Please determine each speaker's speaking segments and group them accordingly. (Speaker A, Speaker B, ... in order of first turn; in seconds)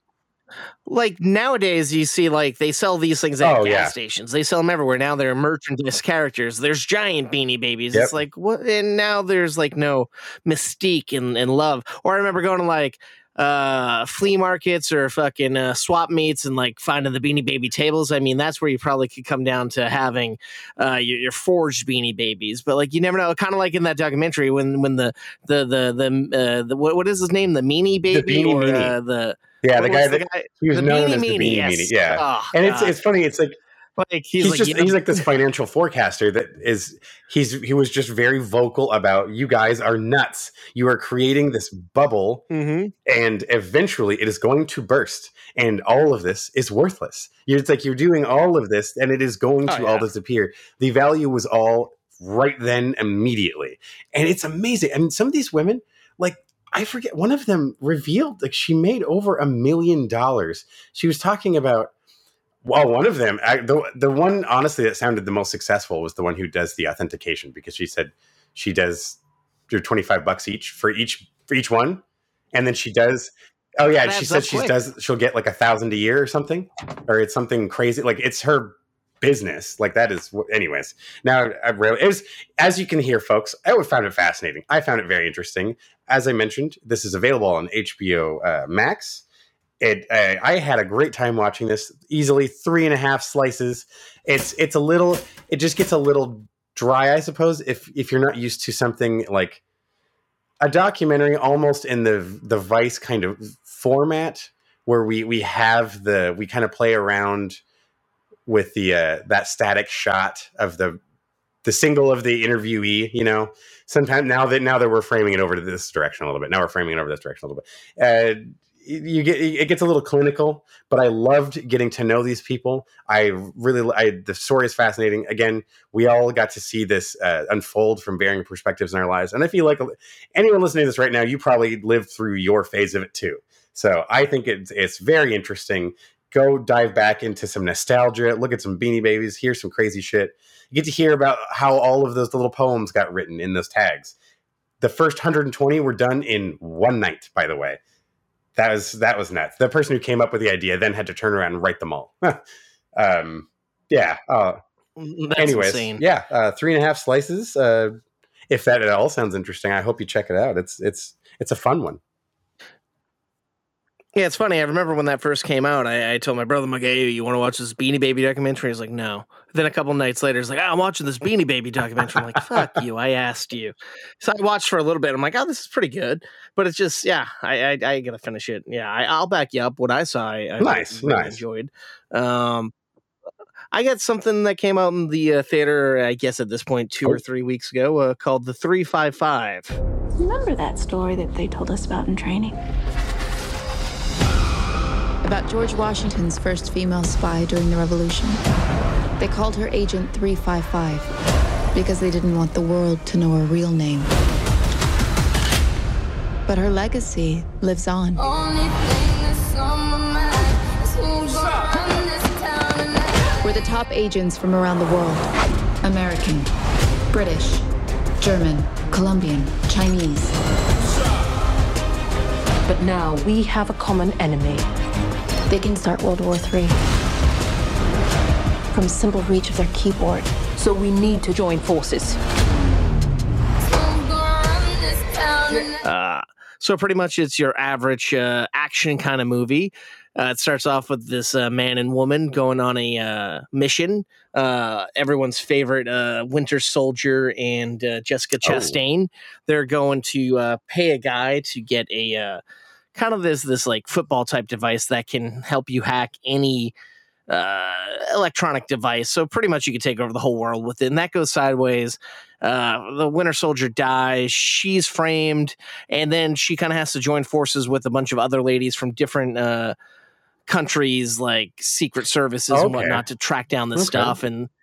Speaker A: 0.9-33.0, 34.0-35.2, 42.5-42.9, 49.7-50.1, 73.8-74.8, 155.0-156.0, 164.2-182.7, 183.7-189.8, 235.8-252.4, 252.9-256.7, 257.3-269.7, 270.5-274.5
Speaker B: 3.4-4.0, 28.1-28.9, 29.6-33.6, 34.4-42.4, 43.0-61.9, 62.6-72.0, 72.5-89.2, 89.8-99.6, 100.6-107.6, 108.5-111.0, 111.6-144.1, 144.8-147.8, 148.6-152.4, 152.9-154.6, 155.4-157.9, 158.5-162.0, 172.0-172.7, 180.6-181.4, 248.4-248.8, 272.5-273.0, 273.7-274.2
Speaker C: 190.2-192.6
Speaker D: 195.2-198.4, 199.2-201.1, 201.7-204.1, 206.4-208.3, 213.4-215.2, 215.8-216.5, 217.1-217.6, 218.2-220.3
Speaker E: 222.7-224.7, 225.5-226.8, 228.7-232.2